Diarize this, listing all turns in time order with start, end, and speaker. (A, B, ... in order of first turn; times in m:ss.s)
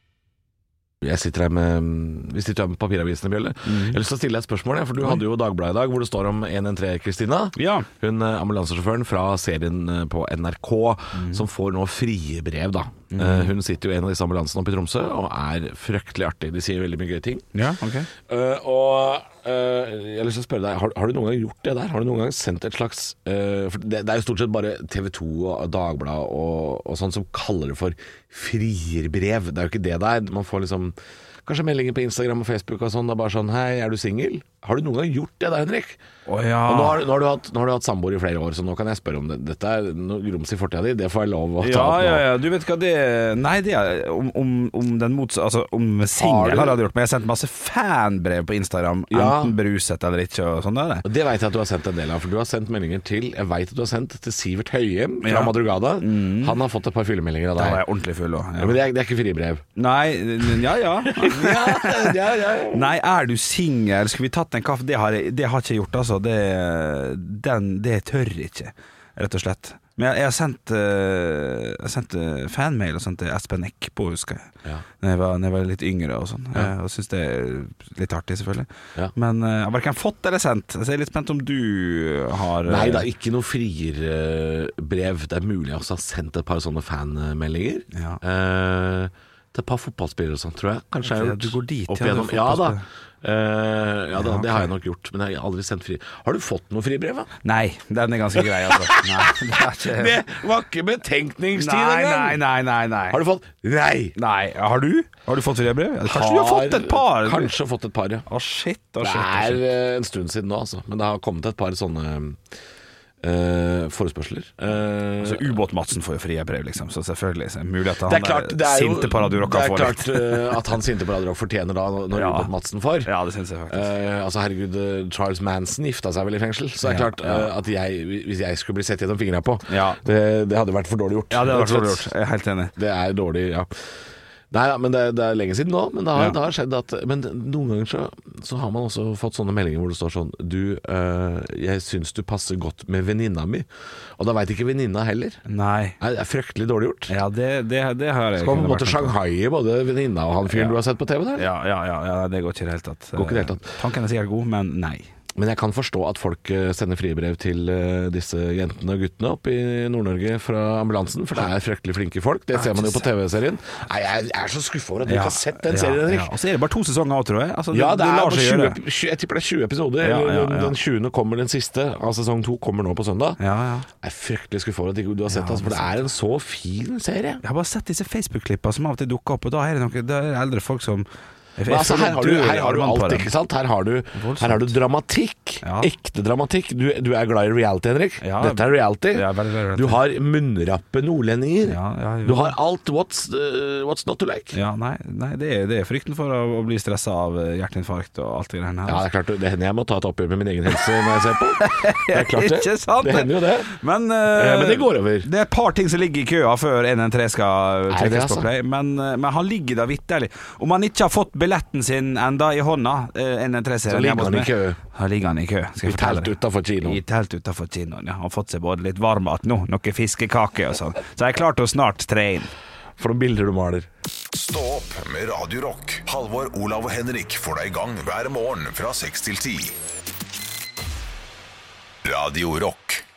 0:01.0-0:17.5 A
0:03.6-0:04.0 B
0:07.6-0:07.9 B
0:11.1-0:11.4 B
0:13.1-0:13.5 B
0:17.5-0:18.1 B
0:18.3-0:36.0 A
0:36.3-0:37.0 B
0:36.6-0:42.2 A
0:41.6-0:51.0 B
0:46.2-0:46.8 A
0:49.1-0:49.6 A
0:51.0-0:57.8 A
0:55.2-0:56.6 B
0:57.6-0:58.8 B
0:58.6-0:59.6 A
0:59.8-1:14.5 B
1:01.0-1:02.9 A
1:15.0-1:23.1 B
1:22.6-1:37.3 A
1:27.9-1:28.2 B
1:31.0-1:32.8 B
1:34.2-1:34.7 B
1:37.4-1:40.2 B
1:38.4-1:42.4 A
1:41.6-1:43.2 B
1:43.1-1:44.1 A
1:44.2-1:47.5 B
1:46.0-1:48.2 A
1:48.3-1:49.6 B
1:49.0-1:52.4 A
1:53.2-1:55.5 A
1:55.2-2:00.6 B
1:58.0-2:03.1 A
2:02.1-2:02.5 B
2:03.0-2:03.9 B
2:03.7-2:12.1 A
2:06.8-2:07.5 B
2:09.7-2:10.0 B
2:11.3-2:12.7 B
2:12.8-2:13.7 A
2:14.5-2:25.4 A
2:25.5-2:26.0 B
2:26.0-2:27.1 A
2:27.1-2:29.1 B
2:28.4-2:31.5 A
2:30.5-2:30.8 B
2:31.4-2:35.1 B
2:33.2-2:33.7 A
2:35.3-2:46.3 A
2:42.5-2:43.1 B
2:45.0-2:48.8 B
2:47.7-2:53.4 A
2:50.0-2:50.8 B
2:53.4-2:53.9 B
2:54.0-2:57.4 A
2:55.3-2:56.0 B
2:57.4-3:01.0 B
3:01.6-3:03.3 B
3:01.7-3:14.6 A
3:04.1-3:04.8 B
3:05.6-3:05.9 B
3:08.2-3:10.0 B
3:11.6-3:12.5 B
3:14.5-3:19.0 B
3:18.9-3:23.7 A
3:21.6-3:42.5 B
3:24.3-3:25.3 A
3:27.9-3:28.5 A
3:33.9-3:34.8 A
3:35.8-3:37.0 A
3:43.0-3:43.9 A
3:44.3-3:49.8 C
3:52.0-3:53.0 C